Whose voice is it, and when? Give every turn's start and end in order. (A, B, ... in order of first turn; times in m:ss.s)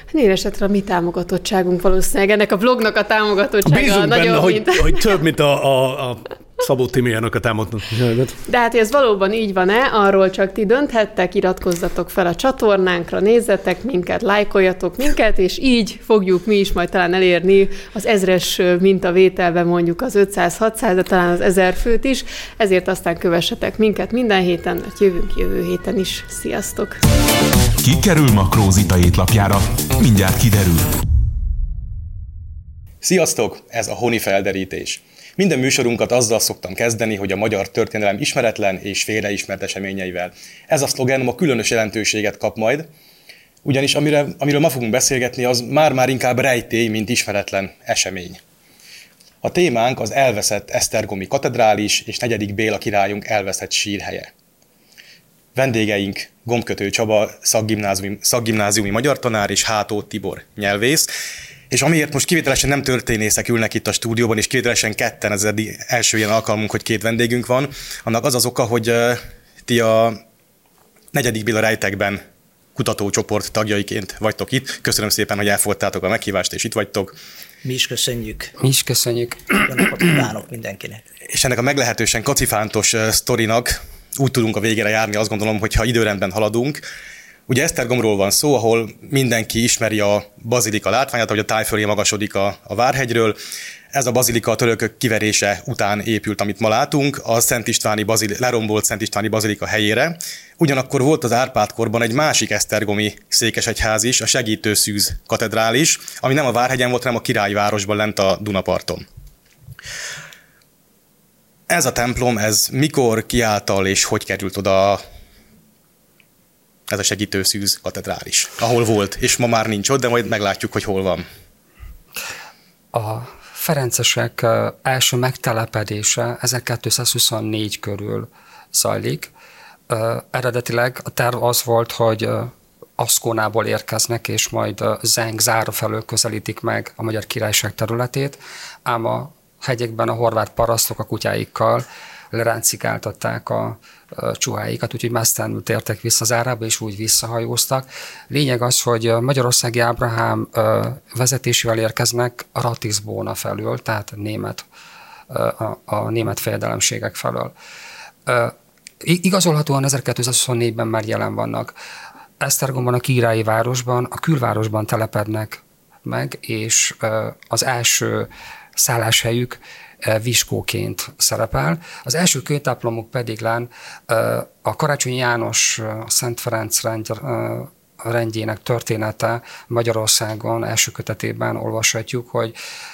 0:00.1-0:05.1 A
0:03.6-0:08.4 B
0:08.5-0:27.0 A
0:27.8-0:31.0 C
0:33.0-0:42.9 D
0:43.6-0:48.4 D
0:49.4-0:54.3 D
0:55.6-1:01.1 D
1:01.7-1:10.2 D
1:11.1-1:12.2 D
1:12.8-1:17.2 D
1:17.6-1:18.5 E
1:18.6-1:19.6 F
1:19.6-1:21.0 E
1:21.3-1:26.8 D
1:27.5-1:33.4 D
1:33.9-1:49.0 D
1:51.7-1:55.0 D
1:56.9-2:01.2 D
2:02.9-2:09.3 F
2:09.9-2:34.6 F
2:35.3-2:37.5 F
2:38.3-2:41.7 F
2:42.4-3:02.5 F